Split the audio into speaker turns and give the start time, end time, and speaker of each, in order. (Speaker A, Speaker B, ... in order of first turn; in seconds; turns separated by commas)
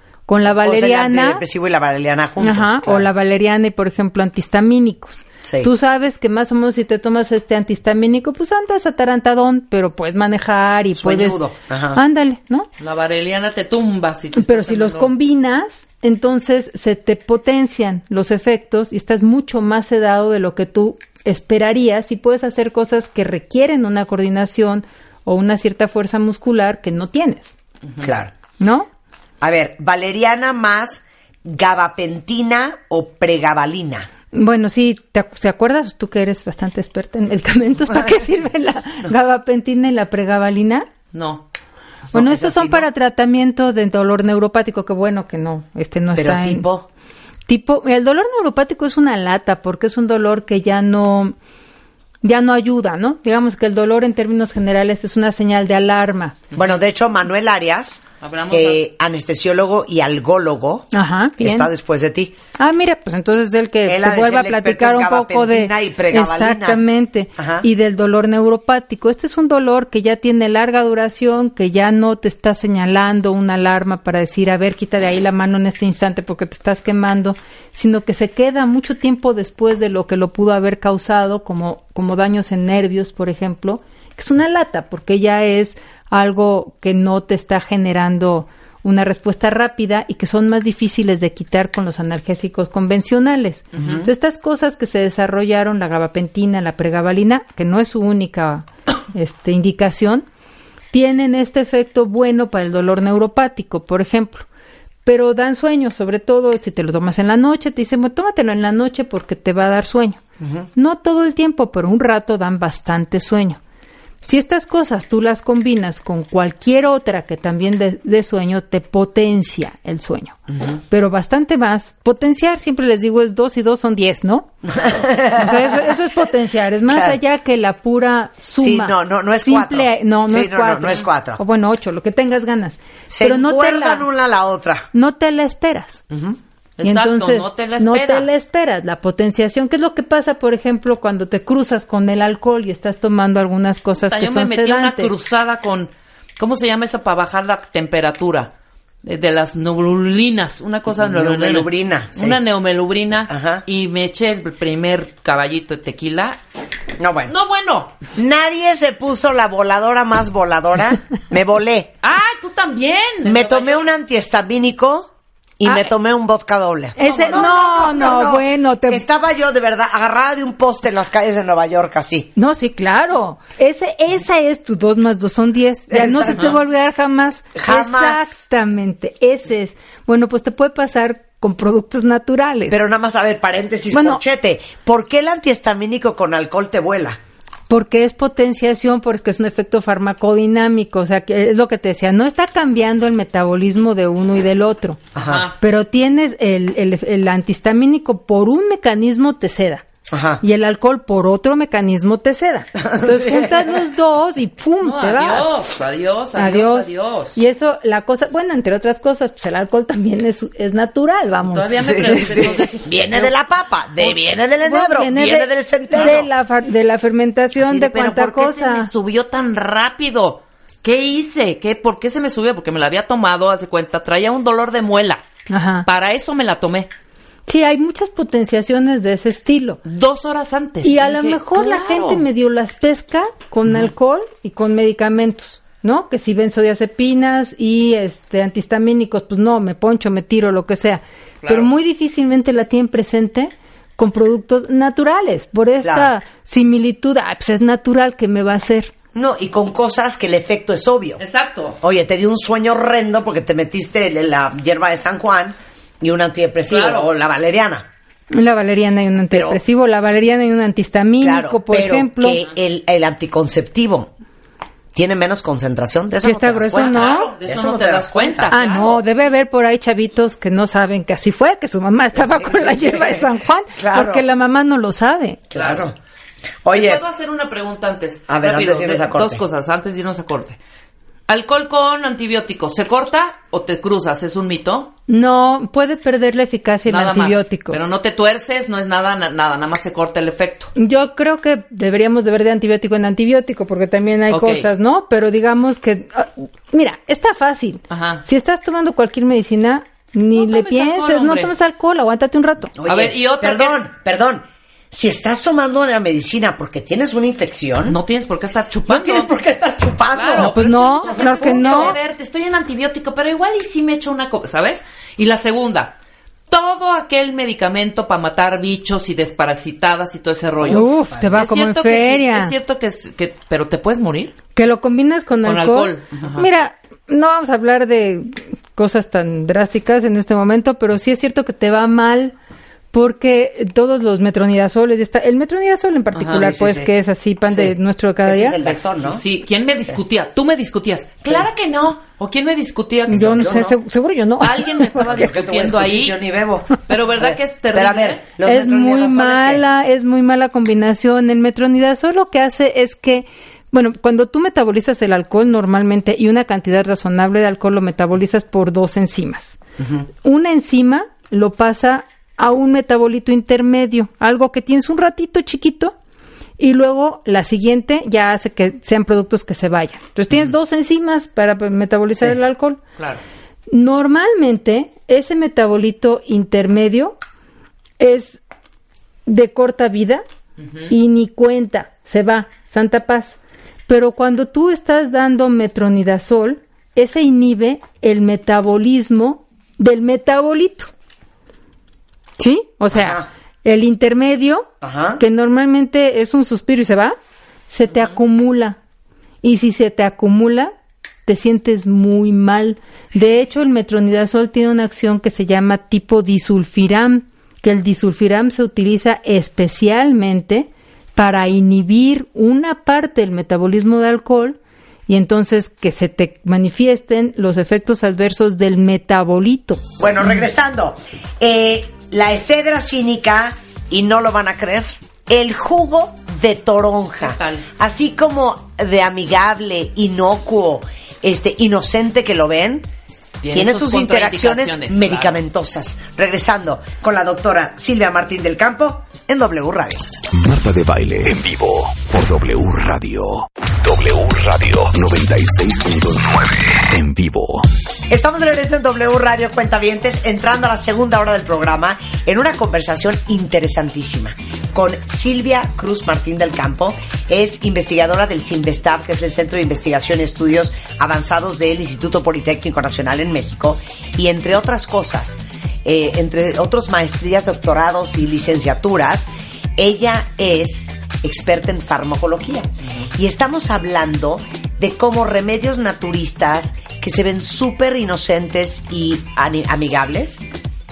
Speaker A: 0.3-1.4, Speaker B: 0.6-3.1, Speaker A: 2.4-11.4, Speaker B: 5.4-5.7, Speaker B: 10.9-12.0, Speaker A: 11.9-12.7, Speaker C: 12.8-15.1, Speaker A: 14.4-27.5, Speaker B: 28.0-28.3, Speaker A: 28.6-28.9, Speaker B: 29.4-34.1, Speaker A: 34.3-40.9, Speaker C: 41.1-41.5, Speaker B: 42.1-42.9, Speaker A: 42.1-46.7, Speaker B: 46.1-46.9, Speaker A: 47.5-51.4, Speaker A: 52.2-56.4, Speaker B: 56.5-62.4, Speaker C: 58.2-58.8, Speaker A: 60.9-61.7, Speaker A: 62.6-100.2, Speaker B: 63.9-66.8, Speaker B: 67.4-67.7, Speaker B: 93.8-94.1, Speaker A: 100.9-104.5, Speaker A: 105.0-110.2, Speaker B: 110.4-110.7, Speaker A: 110.8-113.6, Speaker A: 114.2-120.4, Speaker A: 120.9-124.5, Speaker B: 124.7-126.0, Speaker A: 125.2-134.1, Speaker B: 126.9-127.2, Speaker B: 128.6-131.4, Speaker B: 133.1-134.9, Speaker A: 134.9-136.0, Speaker B: 136.1-136.4, Speaker C: 136.8-138.3, Speaker A: 136.8-145.1, Speaker C: 144.0-148.5, Speaker C: 149.0-156.4, Speaker B: 151.0-152.4, Speaker B: 153.3-153.6, Speaker B: 157.0-157.3, Speaker C: 157.3-157.9, Speaker B: 158.1-161.9, Speaker C: 162.0-163.9, Speaker B: 163.2-172.3, Speaker A: 167.0-169.0, Speaker C: 167.0-167.6, Speaker A: 172.4-182.8, Speaker B: 175.9-176.6, Speaker B: 177.6-178.4, Speaker B: 182.7-187.2, Speaker A: 183.9-184.2, Speaker A: 187.7-195.0, Speaker B: 195.1-195.5, Speaker C: 195.2-195.6, Speaker A: 195.6-199.8, Speaker B: 200.1-200.4, Speaker A: 200.4-205.6, Speaker B: 202.8-203.8, Speaker C: 204.8-207.4, Speaker A: 206.3-212.3, Speaker C: 211.4-213.3, Speaker B: 211.8-216.3, Speaker A: 214.6-218.9, Speaker C: 215.9-216.2, Speaker C: 217.6-225.2, Speaker A: 225.5-225.9, Speaker C: 225.9-226.9, Speaker A: 227.5-229.8, Speaker C: 229.8-232.2, Speaker A: 230.8-248.9, Speaker C: 241.4-241.7, Speaker B: 245.8-246.1, Speaker B: 249.2-251.2, Speaker C: 251.2-251.8, Speaker B: 251.8-257.9, Speaker C: 256.7-257.1, Speaker A: 258.3-262.4, Speaker B: 259.3-259.6, Speaker B: 261.2-264.1, Speaker B: 264.9-268.6, Speaker A: 266.2-267.3, Speaker C: 266.8-269.0, Speaker A: 268.5-275.4, Speaker B: 272.1-274.3, Speaker B: 275.5-275.9, Speaker C: 275.5-275.9, Speaker B: 276.6-277.0, Speaker C: 276.7-280.6, Speaker B: 278.3-279.4, Speaker C: 281.3-284.9, Speaker A: 285.1-287.8, Speaker C: 286.9-290.7, Speaker A: 290.8-302.7, Speaker C: 294.3-294.7, Speaker C: 297.9-298.2, Speaker C: 300.3-301.5, Speaker B: 302.8-308.0, Speaker C: 302.9-303.9, Speaker C: 307.9-309.3, Speaker B: 308.9-312.0, Speaker C: 310.1-315.9, Speaker A: 310.4-312.0, Speaker C: 316.5-324.4, Speaker B: 320.6-321.4, Speaker A: 320.7-322.5, Speaker A: 324.6-332.4, Speaker C: 325.4-326.5, Speaker A: 332.9-338.6, Speaker C: 336.1-336.4, Speaker B: 336.3-336.9, Speaker B: 337.5-339.2, Speaker C: 338.6-343.6, Speaker B: 343.1-343.8, Speaker A: 343.1-345.3, Speaker C: 344.4-346.2, Speaker B: 345.0-349.6, Speaker C: 346.8-348.2, Speaker A: 348.4-359.6, Speaker A: 360.2-365.9, Speaker A: 366.6-372.8, Speaker C: 373.0-373.2, Speaker A: 373.7-377.2, Speaker A: 378.0-378.4, Speaker A: 379.3-380.2, Speaker C: 380.6-380.9, Speaker A: 380.9-383.4, Speaker A: 383.9-390.9, Speaker A: 392.4-394.7, Speaker B: 392.9-393.3, Speaker B: 394.8-395.2, Speaker A: 395.2-397.2, Speaker A: 397.7-398.8, Speaker A: 399.4-400.7, Speaker A: 401.3-414.6, Speaker A: 415.1-419.8, Speaker B: 420.0-432.9, Speaker C: 427.2-427.7, Speaker C: 433.4-435.4, Speaker B: 433.5-440.1, Speaker D: 440.3-447.7, Speaker B: 448.1-480.4